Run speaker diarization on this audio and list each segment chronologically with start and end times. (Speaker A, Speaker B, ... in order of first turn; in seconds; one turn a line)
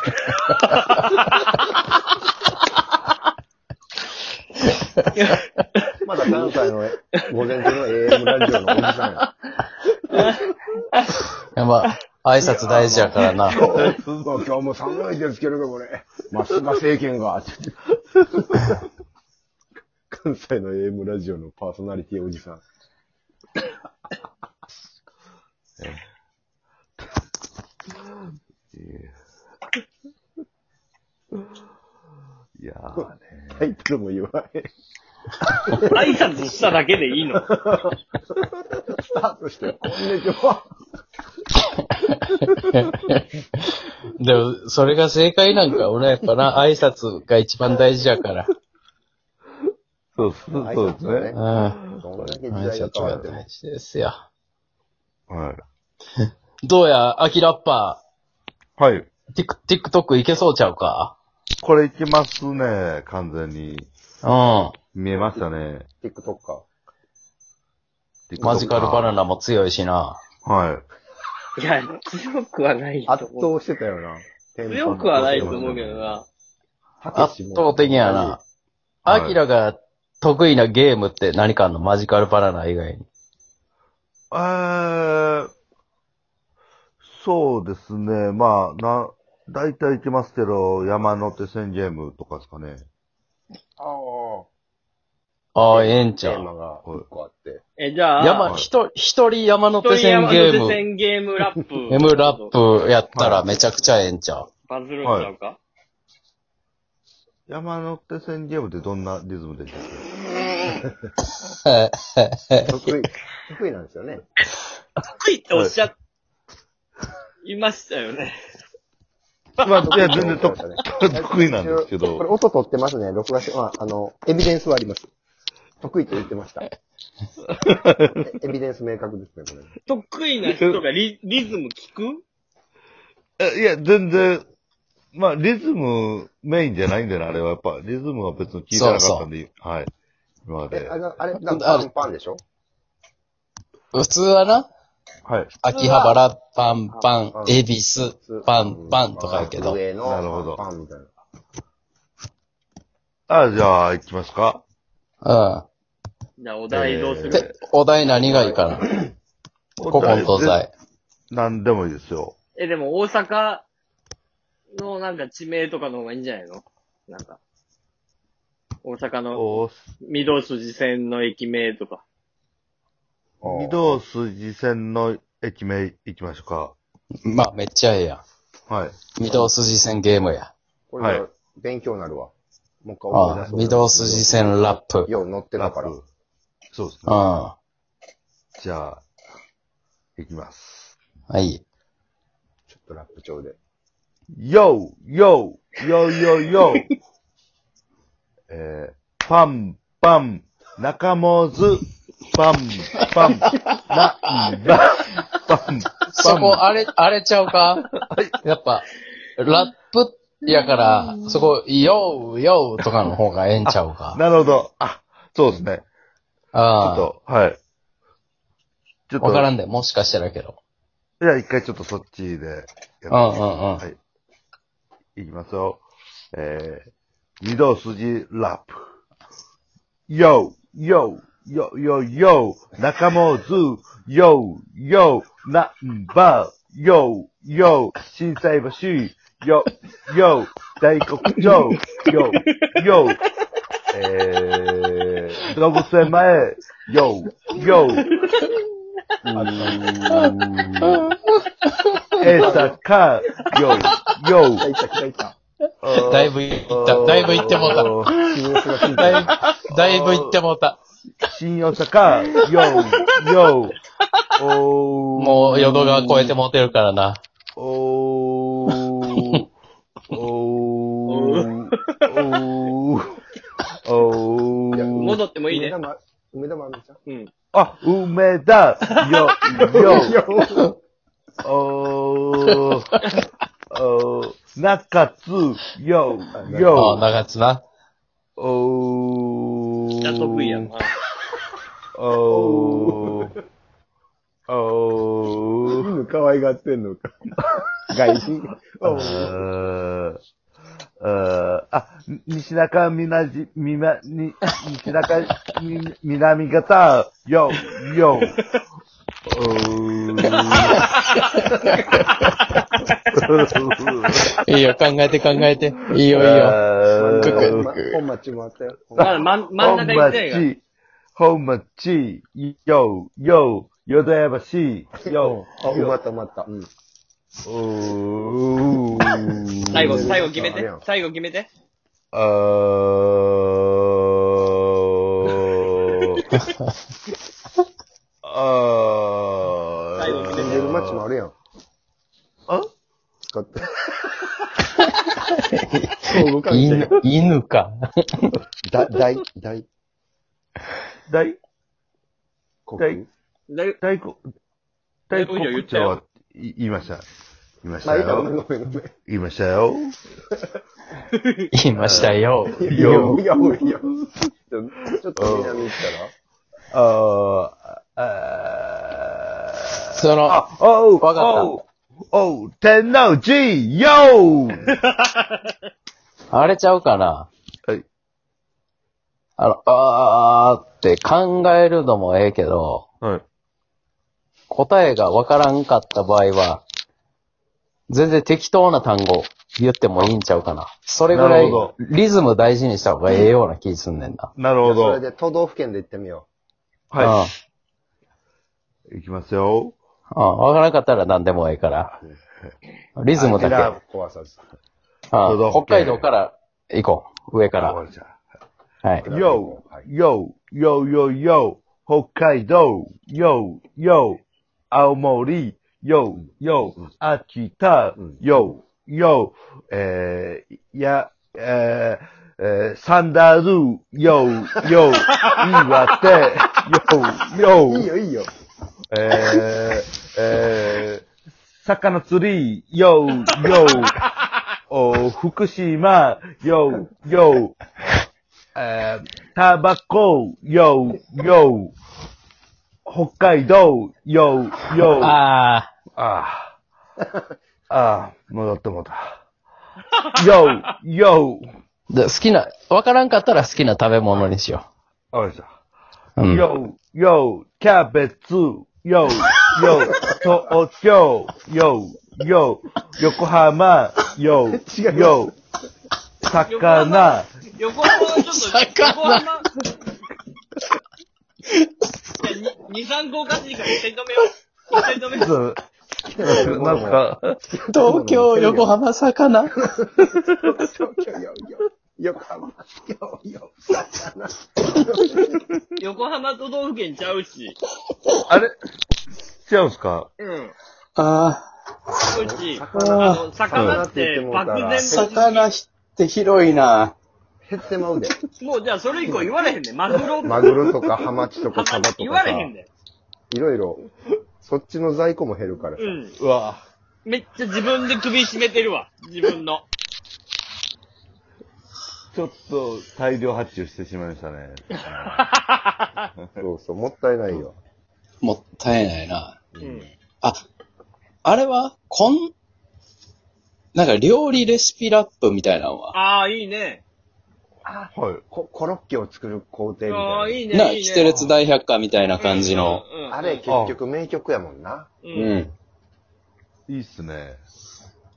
Speaker A: 0.7-1.7
Speaker B: 4.7-5.1
Speaker A: 5.2-5.9
Speaker C: 6.0-9.2
Speaker A: 10.1-10.4
Speaker B: 11.5-13.6
Speaker C: 12.6-18.8
Speaker A: 13.2-13.5
Speaker D: 13.7-14.3
Speaker C: 20.1-22.6
Speaker D: 28.7-29.1
Speaker D: 32.6-33.7
Speaker C: 33.0-34.7
Speaker C: 35.4-36.1
Speaker A: 35.8-37.4
Speaker C: 37.4-40.7
Speaker B: 41.9-48.5
Speaker D: 50.1-52.4
Speaker C: 50.5-53.4
Speaker B: 51.3-51.8
Speaker B: 52.5-54.2
Speaker D: 55.3-55.6
Speaker B: 56.6-58.0
Speaker D: 58.8-59.1
Speaker B: 59.3-61.1
Speaker D: 61.6-63.9
Speaker B: 64.2-64.7
Speaker D: 64.9-65.8
Speaker C: 66.0-66.6
Speaker D: 68.3-69.2
Speaker C: 68.4-68.8
Speaker B: 68.4-70.2
Speaker D: 70.4-70.8
Speaker A: 71.6-73.5
Speaker C: 73.1-76.2
Speaker A: 74.6-76.2
Speaker D: 75.3-75.7
Speaker C: 77.0-78.4
Speaker B: 77.1-78.4
Speaker B: 79.0-83.0
Speaker D: 79.1-79.4
Speaker D: 84.3-85.5
Speaker D: 87.0-92.9
Speaker C: 93.8-94.5
Speaker B: 95.5-96.5
Speaker C: 95.7-97.6
Speaker A: 97.8-98.6
Speaker B: 98.2-100.8
Speaker A: 99.8-102.5
Speaker B: 101.9-104.5
Speaker D: 103.2-103.5
Speaker A: 104.7-105.6
Speaker D: 105.0-105.3
Speaker D: 107.5-110.1
Speaker B: 111.6-112.7
Speaker C: 112.7-114.2
Speaker A: 115.2-115.9
Speaker D: 115.5-115.8
Speaker A: 117.4-118.4
Speaker A: 119.6-120.2
Speaker D: 119.6-122.2
Speaker C: 119.8-125.1
Speaker C: 125.8-126.7
Speaker D: 127.5-128.1
Speaker C: 128.2-129.7
Speaker A: 129.9-132.2
Speaker D: 130.5-130.8
Speaker D: 133.4-134.4
Speaker D: 135.1-139.9
Speaker B: 138.7-139.3
Speaker D: 140.4-141.0
Speaker C: 140.7-142.4
Speaker B: 141.3-141.9
Speaker B: 143.9-144.7
Speaker D: 145.2-145.5
Speaker B: 145.6-149.8
Speaker A: 145.7-146.1
Speaker C: 147.3-147.6
Speaker C: 148.2-151.1
Speaker D: 150.0-150.6
Speaker D: 153.3-154.6
Speaker B: 155.2-155.7
Speaker A: 156.4-157.5
Speaker D: 156.7-157.5
Speaker B: 157.3-159.1
Speaker C: 158.2-158.7
Speaker D: 159.8-160.6
Speaker B: 159.9-160.7
Speaker D: 161.3-162.3
Speaker A: 162.6-163.6
Speaker A: 164.7-167.4
Speaker A: 168.8-172.0
Speaker D: 169.3-169.7
Speaker C: 173.4-174.0
Speaker D: 173.4-176.7
Speaker B: 177.2-178.2
Speaker D: 178.7-179.1
Speaker B: 179.1-180.5
Speaker C: 179.3-179.7
Speaker C: 180.9-182.3
Speaker D: 181.0-181.2
Speaker C: 182.8-185.9
Speaker B: 183.1-185.1
Speaker D: 185.6-186.0
Speaker D: 186.7-187.2
Speaker B: 187.1-187.6
Speaker D: 188.6-189.0
Speaker D: 190.2-190.9
Speaker B: 191.3-191.6
Speaker C: 192.7-193.6
Speaker D: 194.3-196.9
Speaker D: 198.5-206.6
Speaker B: 203.9-204.5
Speaker B: 206.1-207.9
Speaker D: 208.0-208.3
Speaker B: 208.4-208.8
Speaker B: 209.4-214.2
Speaker D: 213.6-215.8
Speaker B: 216.5-217.1
Speaker D: 216.8-217.6
Speaker D: 219.1-219.5
Speaker B: 219.2-220.6
Speaker D: 221.2-224.0
Speaker B: 223.1-223.8
Speaker D: 225.2-225.8
Speaker D: 226.3-226.9
Speaker D: 227.4-228.8
Speaker D: 230.1-243.2
Speaker D: 243.9-248.1
Speaker A: 247.9-248.5
Speaker D: 249.3-251.1
Speaker C: 249.3-249.9
Speaker B: 249.5-252.5
Speaker D: 252.2-254.7
Speaker C: 252.2-252.8
Speaker C: 254.6-255.3
Speaker D: 255.8-258.1
Speaker B: 256.0-258.3
Speaker C: 257.5-259.3
Speaker B: 258.9-260.8
Speaker D: 259.7-260.4
Speaker D: 261.2-263.8
Speaker D: 264.4-266.3
Speaker B: 265.2-267.2
Speaker D: 267.6-269.5
Speaker D: 270.1-273.2
Speaker A: 271.1-272.4
Speaker D: 273.8-275.2
Speaker C: 274.7-277.0
Speaker A: 274.9-275.8
Speaker A: 277.1-277.3
Speaker D: 277.5-280.2
Speaker A: 279.1-279.3
Speaker C: 279.6-280.7
Speaker D: 281.4-282.9
Speaker B: 282.5-283.0
Speaker D: 283.7-287.0
Speaker C: 286.3-286.8
Speaker B: 286.7-287.6
Speaker D: 288.4-290.6
Speaker A: 290.0-290.9
Speaker D: 291.9-293.3
Speaker C: 292.3-293.4
Speaker D: 294.5-295.9
Speaker C: 295.7-299.4
Speaker D: 298.8-300.2
Speaker D: 301.0-308.4
Speaker D: 309.3-310.9
Speaker B: 310.7-312.2
Speaker D: 313.1-314.3
Speaker B: 314.4-316.6
Speaker D: 316.1-317.7
Speaker C: 316.9-319.3
Speaker B: 317.1-318.0
Speaker A: 319.0-320.4
Speaker D: 319.0-320.6
Speaker D: 321.1-325.9
Speaker C: 325.0-326.7
Speaker D: 327.4-330.2
Speaker C: 329.7-330.8
Speaker A: 329.7-331.5
Speaker D: 332.1-336.2
Speaker D: 338.2-341.0
Speaker A: 339.9-340.6
Speaker C: 340.1-341.3
Speaker C: 343.2-343.7
Speaker B: 344.7-348.3
Speaker C: 346.0-347.0
Speaker D: 348.7-349.2
Speaker C: 348.9-349.6
Speaker D: 351.1-351.4
Speaker C: 352.6-353.1
Speaker A: 353.5-353.8
Speaker D: 353.8-354.2
Speaker D: 355.1-357.0
Speaker A: 355.1-356.0
Speaker D: 357.6-358.3
Speaker C: 357.8-358.9
Speaker D: 359.1-359.9
Speaker A: 361.2-361.4
Speaker B: 361.5-363.2
Speaker D: 361.7-364.2
Speaker C: 361.9-366.1
Speaker D: 365.2-365.8
Speaker D: 366.7-374.7
Speaker B: 369.9-370.4
Speaker B: 371.0-371.6
Speaker A: 374.7-375.3
Speaker B: 376.3-377.3
Speaker B: 379.4-382.8
Speaker B: 384.5-386.6
Speaker B: 387.9-394.3
Speaker D: 391.1-391.7
Speaker D: 394.3-395.0
Speaker C: 394.6-396.3
Speaker D: 396.9-397.2
Speaker B: 397.0-397.3
Speaker D: 398.9-399.8
Speaker B: 400.1-401.9
Speaker B: 403.0-403.7
Speaker C: 403.1-404.4
Speaker D: 403.3-403.8
Speaker B: 405.1-407.8
Speaker D: 405.2-406.1
Speaker D: 407.6-408.2
Speaker C: 409.0-409.9
Speaker D: 409.0-427.9
Speaker A: 425.1-425.8
Speaker C: 427.6-428.3
Speaker D: 428.9-431.1
Speaker C: 429.1-429.4
Speaker D: 431.6-434.0
Speaker D: 434.7-437.6
Speaker D: 438.5-441.7
Speaker D: 442.9-445.1
Speaker B: 445.0-445.7
Speaker D: 445.9-446.6
Speaker D: 447.7-449.2
Speaker D: 450.1-451.4
Speaker B: 451.9-454.6
Speaker D: 455.1-455.5
Speaker B: 456.2-456.5
Speaker D: 456.2-465.3
Speaker C: 464.5-465.3
Speaker D: 466.2-467.3
Speaker A: 466.4-469.5
Speaker B: 467.9-469.3
Speaker A: 472.2-475.3
Speaker D: 475.1-475.6
Speaker C: 476.0-478.7
Speaker D: 476.2-477.4
Speaker B: 477.7-479.6
Speaker C: 479.5-485.4
Speaker A: 485.8-487.6
Speaker D: 488.3-488.5
Speaker D: 489.4-490.1
Speaker A: 490.2-490.5
Speaker B: 491.0-491.4
Speaker A: 492.0-495.5
Speaker C: 492.1-495.1
Speaker B: 492.7-493.2
Speaker D: 493.5-493.8
Speaker B: 494.7-496.9
Speaker C: 497.4-498.1
Speaker A: 498.4-500.4
Speaker C: 500.2-502.5
Speaker A: 501.5-502.7
Speaker C: 503.3-503.9
Speaker C: 504.4-506.0
Speaker A: 505.8-506.1
Speaker D: 506.2-506.6
Speaker A: 507.0-509.6
Speaker D: 512.1-515.3
Speaker A: 515.1-516.0
Speaker D: 516.2-516.4
Speaker C: 516.4-517.5
Speaker B: 518.2-519.3
Speaker C: 519.5-519.9
Speaker A: 519.6-519.9
Speaker B: 521.2-522.3
Speaker B: 523.7-526.0
Speaker A: 525.9-526.8
Speaker C: 527.6-530.4
Speaker D: 527.9-528.2
Speaker A: 529.9-531.2
Speaker B: 530.5-532.8
Speaker A: 532.2-533.5
Speaker C: 533.1-534.9
Speaker D: 533.5-533.8
Speaker A: 535.0-535.4
Speaker B: 535.1-535.5
Speaker D: 536.7-537.4